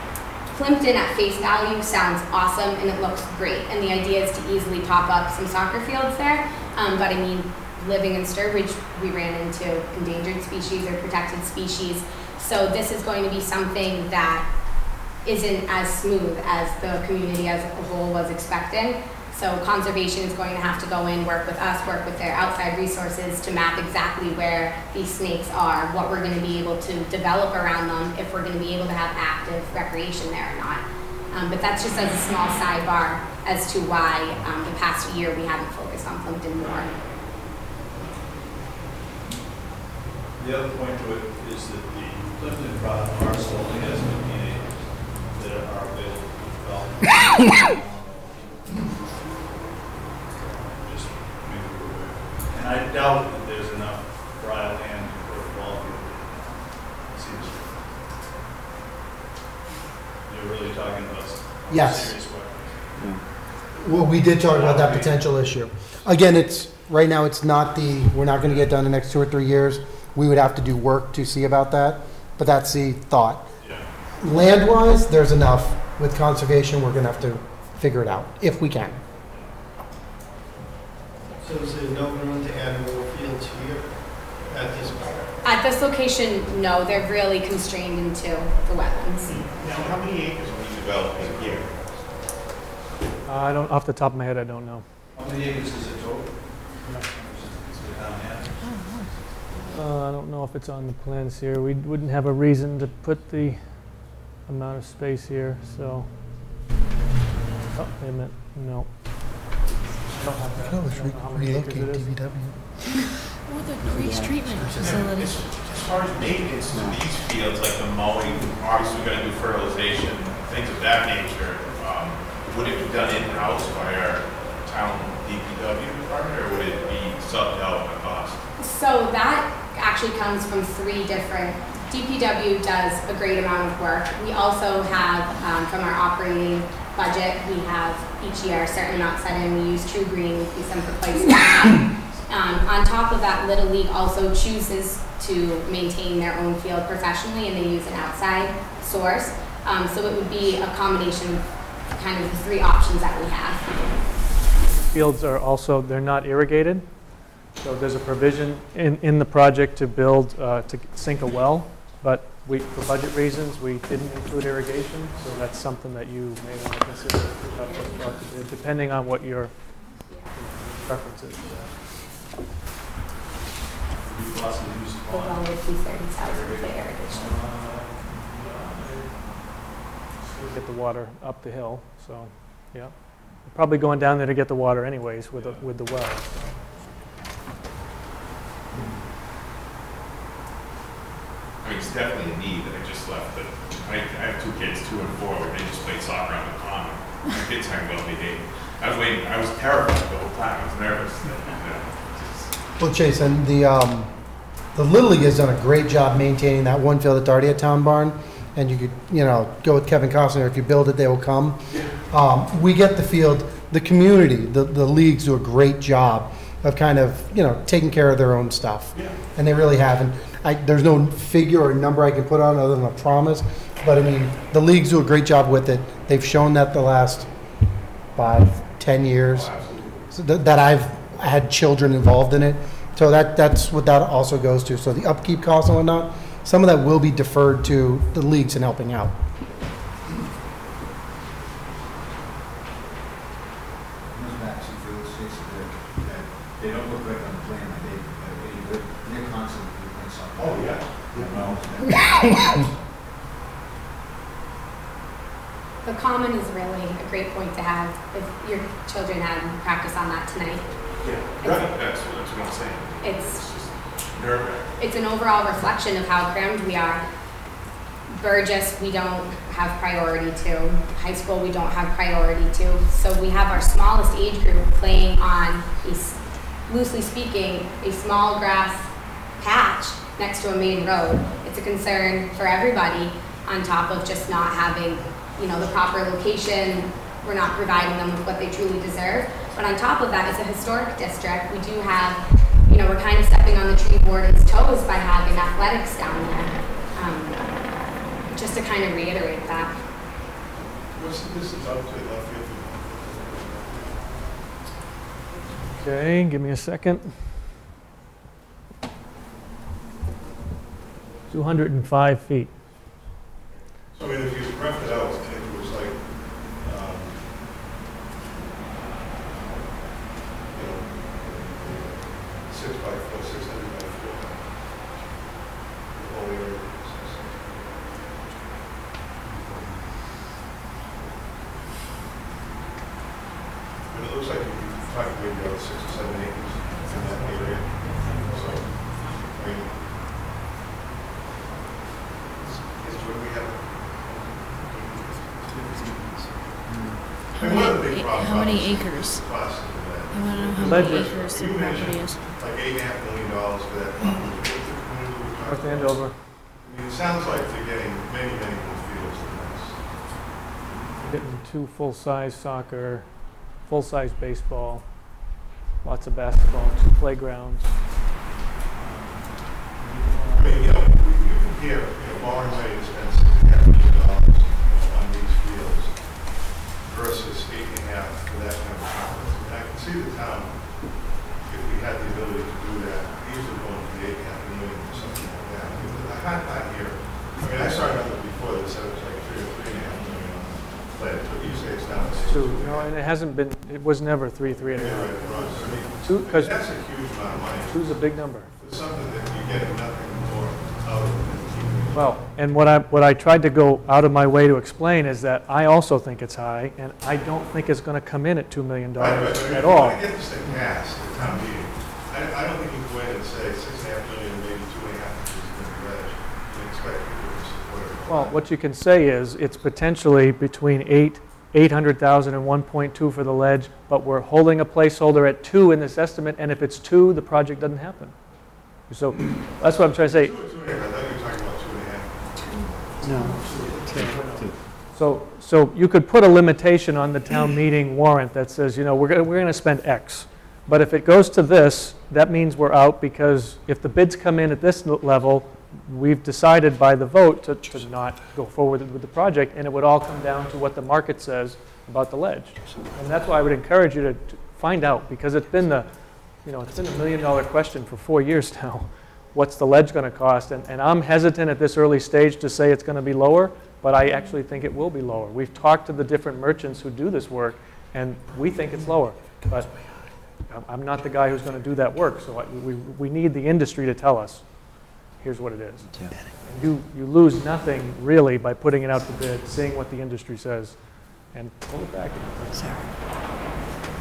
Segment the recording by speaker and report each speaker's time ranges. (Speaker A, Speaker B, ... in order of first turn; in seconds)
Speaker A: 0.5-14.5, 15.2-36.9, 85.4-89.3, 128.6-151.4, 151.9-153.7, 175.1-177.4, 255.8-260.7, 261.4-261.7, 263.0-263.4, 264.8-267.1, 268.1-278.9, 279.4-297.4, 298.3-299.8
Speaker B: 40.4-49.0, 50.3-57.7, 60.3-63.0, 64.4-65.2, 95.2-96.3, 97.2-98.6, 114.8-115.5, 174.0-175.4, 176.2-179.1, 251.2-251.5
Speaker C: 61.7-62.1, 63.8-73.5, 74.2-79.0, 110.6-112.8, 202.8-204.1, 204.7-227.3, 228.1-229.6, 230.1-239.2
Speaker D: 81.5-83.7, 84.6-85.1
Speaker E: 89.5-91.8, 116.1-128.4, 191.6-202.5, 261.0-264.7
Speaker F: 93.3-94.8, 99.7-103.6, 104.5-106.1, 107.7-108.9, 110.1-112.1, 154.9-156.8, 157.6-169.5, 170.3-171.5, 180.3-182.9, 183.5-186.5, 305.8-307.1, 311.3-312.5, 350.6-351.0, 355.4-356.2, 361.0-363.1, 363.7-364.9, 365.8-367.8, 368.8-370.6, 392.2-396.6, 397.7-398.5, 401.9-410.0, 418.1-428.1, 428.9-430.3, 433.1-455.9, 456.4-474.4, 475.2-480.8, 481.3-482.9
Speaker G: 98.6-99.1, 113.4-115.4, 347.4-349.2, 350.1-352.4
Speaker H: 244.1-252.0
Speaker I: 300.9-303.9, 313.9-316.0, 316.5-317.2, 320.5-324.5, 325.9-327.7, 333.9-339.7, 342.8-345.7, 347.4-356.1, 356.6-359.9, 370.3-376.0, 376.8-380.8, 381.4-392.9, 394.7-398.0, 398.6-402.1, 409.0-418.4, 430.1-432.2